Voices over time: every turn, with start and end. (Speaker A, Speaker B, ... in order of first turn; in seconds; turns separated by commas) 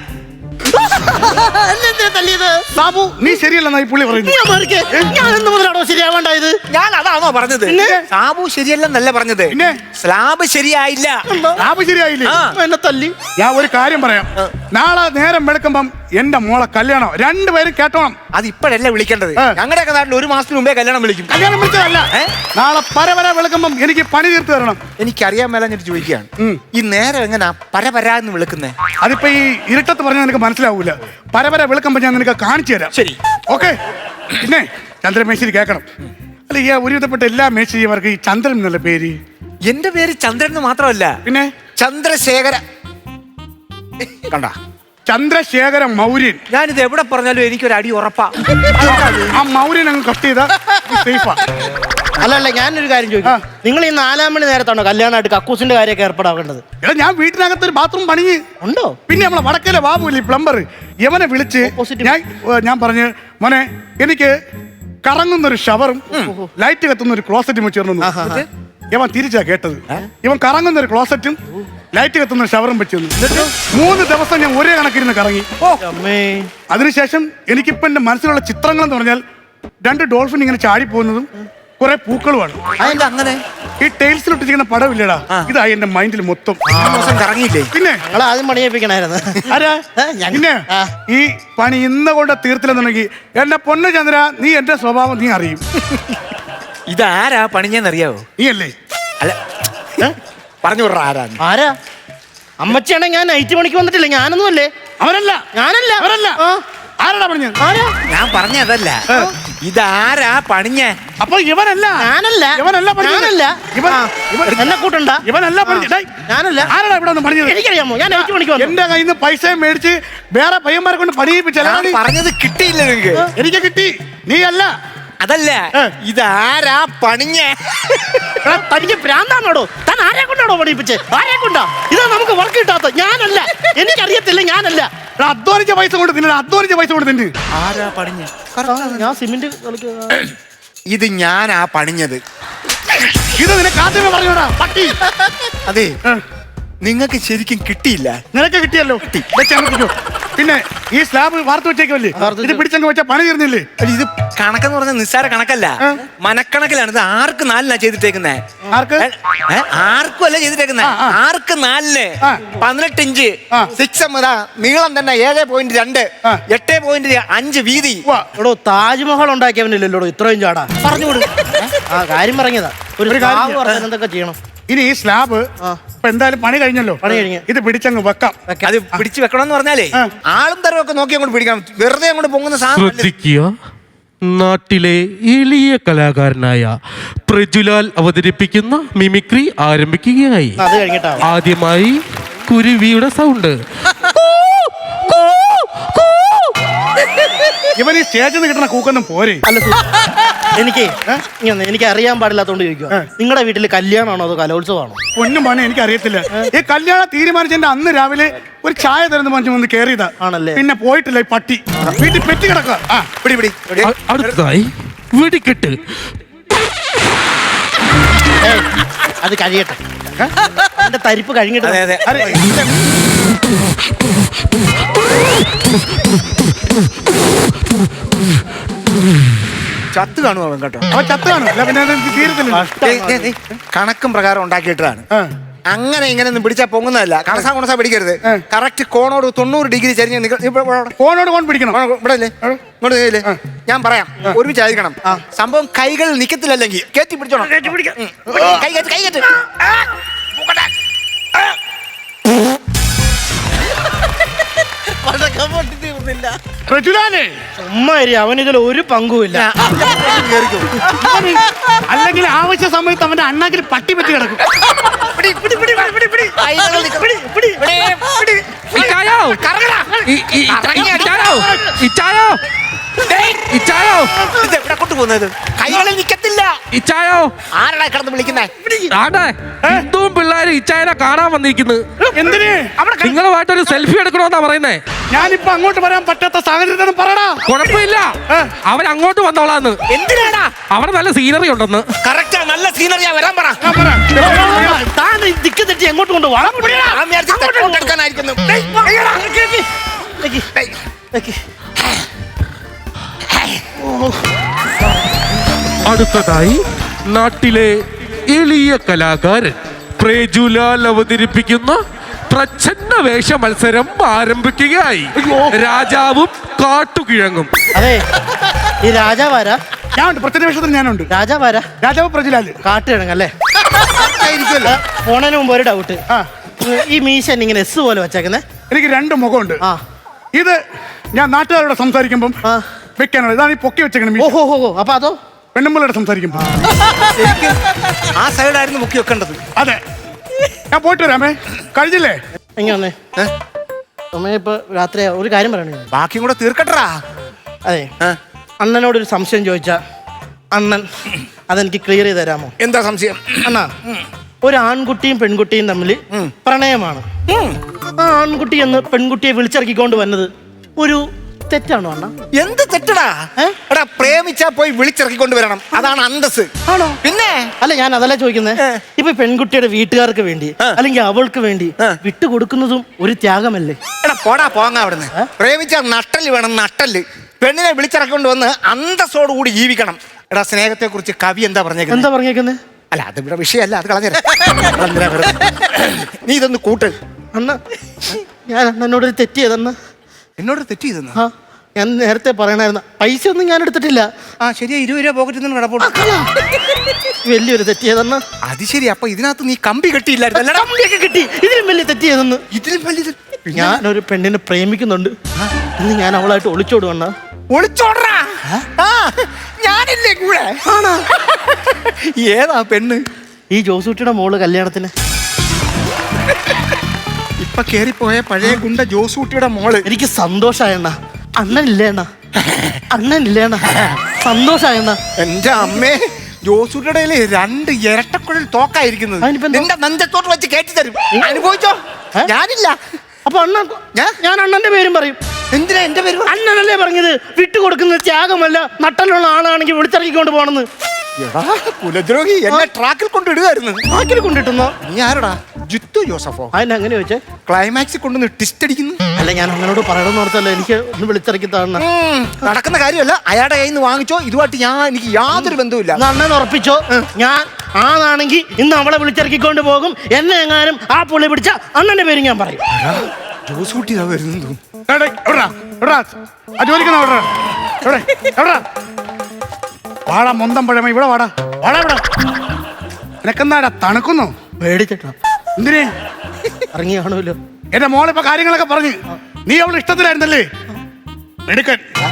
Speaker A: 0.7-2.6, Speaker B: 2.8-4.4, Speaker A: 4.1-6.6, Speaker C: 6.7-11.2, Speaker A: 7.7-8.0, Speaker B: 9.5-9.8, Speaker A: 11.3-11.7, Speaker B: 11.6-12.4, Speaker C: 12.2-12.5, Speaker A: 12.5-13.2, Speaker B: 13.4-18.2, Speaker C: 18.3-21.3, Speaker B: 21.3-24.8, Speaker C: 25.0-28.7, Speaker B: 29.0-32.9, Speaker B: 33.5-33.8, Speaker B: 34.4-35.9, Speaker B: 36.5-39.2, Speaker C: 39.6-41.2, Speaker B: 41.2-41.5, Speaker C: 41.8-42.6, Speaker C: 44.0-44.5, Speaker B: 45.0-46.4, Speaker C: 46.5-49.4, Speaker B: 48.8-51.4, Speaker A: 52.2-56.6, Speaker B: 56.8-58.4, Speaker A: 58.6-59.0, Speaker B: 59.1-64.3, Speaker A: 61.6-62.2, Speaker B: 65.0-68.1, Speaker A: 66.1-66.5, Speaker A: 68.0-68.4, Speaker B: 68.9-71.4, Speaker B: 71.9-75.5, Speaker C: 73.2-73.5, Speaker A: 75.8-76.5, Speaker B: 76.7-79.2, Speaker B: 79.8-81.3, Speaker B: 81.8-82.7, Speaker A: 82.8-83.1, Speaker C: 82.8-83.4, Speaker B: 83.8-86.6, Speaker A: 86.7-87.2, Speaker C: 86.7-87.7, Speaker B: 87.7-88.0, Speaker A: 88.0-90.9, Speaker B: 89.5-95.6, Speaker C: 95.8-96.3, Speaker C: 96.9-98.2, Speaker B: 98.4-98.7, Speaker C: 100.6-101.4, Speaker A: 101.4-101.7, Speaker A: 102.6-104.7, Speaker B: 105.0-105.4, Speaker A: 105.5-106.6, Speaker B: 106.0-106.4, Speaker B: 107.0-107.6, Speaker A: 107.6-108.0, Speaker C: 108.1-109.0, Speaker C: 109.6-111.0, Speaker B: 111.2-114.7, Speaker A: 112.0-116.7, Speaker B: 115.2-116.1, Speaker B: 116.6-122.0, Speaker A: 117.4-118.8, Speaker C: 121.6-123.2, Speaker B: 123.3-124.7, Speaker C: 125.2-128.4, Speaker A: 128.4-134.9, Speaker B: 135.2-137.3, Speaker C: 137.5-139.1, Speaker A: 138.7-140.2, Speaker C: 140.9-142.2, Speaker B: 143.3-145.0, Speaker C: 145.5-146.0, Speaker C: 146.8-148.2, Speaker B: 148.3-153.7, Speaker C: 149.0-149.3, Speaker A: 152.2-152.6, Speaker C: 153.8-158.4, Speaker B: 158.7-159.1, Speaker C: 159.0-168.0, Speaker B: 160.8-161.2, Speaker A: 168.3-170.7, Speaker C: 170.8-171.7, Speaker A: 171.9-174.3, Speaker B: 173.1-173.8, Speaker B: 174.7-178.3, Speaker A: 177.0-177.4, Speaker C: 178.7-183.1, Speaker D: 182.7-183.5, Speaker D: 184.2-186.7, Speaker D: 187.3-190.6, Speaker A: 190.6-191.2, Speaker D: 191.2-193.6, Speaker B: 197.8-199.4, Speaker A: 199.5-199.9, Speaker A: 200.5-205.0, Speaker B: 205.1-213.1, Speaker A: 210.2-210.6, Speaker C: 213.2-214.3, Speaker D: 213.8-215.8, Speaker A: 219.2-219.8, Speaker A: 220.6-221.8, Speaker C: 221.6-222.8, Speaker B: 222.0-222.4, Speaker C: 229.9-230.9, Speaker B: 230.9-232.7, Speaker A: 232.5-233.3, Speaker C: 232.8-235.1, Speaker C: 235.7-240.9, Speaker B: 241.0-241.8, Speaker C: 241.7-249.3, Speaker A: 247.4-248.0, Speaker B: 248.3-248.6, Speaker A: 254.9-256.3, Speaker B: 256.7-257.4, Speaker A: 257.6-259.5, Speaker C: 259.3-260.9, Speaker B: 261.0-264.4, Speaker C: 265.1-271.3, Speaker A: 265.4-267.9, Speaker D: 268.7-269.4, Speaker D: 270.1-272.4, Speaker C: 273.1-273.4, Speaker D: 273.2-274.2, Speaker C: 274.3-276.5, Speaker D: 276.7-277.3, Speaker C: 277.5-278.5, Speaker D: 278.9-281.8, Speaker B: 282.1-282.9, Speaker D: 283.0-284.8, Speaker B: 285.1-287.4, Speaker D: 287.4-289.8, Speaker C: 289.9-290.5, Speaker D: 290.7-291.9, Speaker C: 292.0-293.6, Speaker B: 293.6-294.9, Speaker A: 294.1-297.9, Speaker B: 296.5-296.8, Speaker C: 296.8-299.2, Speaker A: 298.5-300.5, Speaker A: 301.1-301.4, Speaker C: 303.3-303.6, Speaker A: 303.8-304.1, Speaker D: 305.8-311.8, Speaker D: 312.3-317.5, Speaker A: 317.7-318.0, Speaker A: 318.7-319.6, Speaker B: 319.9-321.1, Speaker A: 321.1-321.7, Speaker B: 321.8-322.6, Speaker A: 322.6-323.3, Speaker C: 323.8-324.8, Speaker A: 324.6-326.0, Speaker A: 326.6-328.4, Speaker B: 328.7-329.6, Speaker B: 330.3-330.6, Speaker B: 331.1-332.4, Speaker B: 333.0-334.3, Speaker A: 334.2-335.2, Speaker B: 335.5-336.4, Speaker A: 336.4-336.7, Speaker C: 336.7-339.4, Speaker B: 339.6-339.8, Speaker B: 340.7-342.2, Speaker A: 342.6-342.9, Speaker A: 344.1-345.9, Speaker C: 345.9-347.0, Speaker A: 348.6-349.8, Speaker A: 350.5-350.9, Speaker A: 351.5-352.5, Speaker C: 352.6-354.0, Speaker A: 353.4-353.7, Speaker A: 354.4-357.1, Speaker C: 357.3-357.6, Speaker A: 358.0-362.1, Speaker C: 362.4-366.5, Speaker A: 366.7-367.0, Speaker C: 367.0-367.5, Speaker A: 367.6-373.8, Speaker C: 374.0-382.1, Speaker A: 381.9-382.6, Speaker C: 382.9-386.9, Speaker A: 387.3-389.7, Speaker C: 390.4-391.2, Speaker A: 391.1-394.1, Speaker C: 394.4-396.1, Speaker A: 395.8-396.3, Speaker A: 397.2-398.2, Speaker C: 398.4-400.7, Speaker A: 400.4-402.4, Speaker C: 402.5-403.8, Speaker A: 403.5-405.1, Speaker A: 405.8-407.1, Speaker C: 407.5-410.6, Speaker A: 410.6-411.1, Speaker C: 411.2-413.0, Speaker A: 413.5-414.9, Speaker C: 417.4-419.9, Speaker A: 419.9-422.1, Speaker C: 422.4-422.8, Speaker A: 422.9-425.0, Speaker C: 425.2-432.8, Speaker A: 429.2-429.7, Speaker A: 431.1-431.4, Speaker A: 433.2-435.2, Speaker C: 435.5-436.3, Speaker A: 436.3-440.7, Speaker C: 441.2-443.9, Speaker A: 443.9-444.8, Speaker C: 444.8-446.5, Speaker A: 446.5-447.2, Speaker C: 447.4-449.0, Speaker A: 449.1-451.8, Speaker C: 451.8-456.0, Speaker A: 455.9-462.6, Speaker C: 462.7-464.6, Speaker B: 464.9-468.6, Speaker B: 470.1-472.0, Speaker B: 473.2-474.3, Speaker A: 474.6-475.1, Speaker B: 475.6-475.9, Speaker A: 476.7-477.4, Speaker B: 477.7-480.5, Speaker B: 481.5-481.9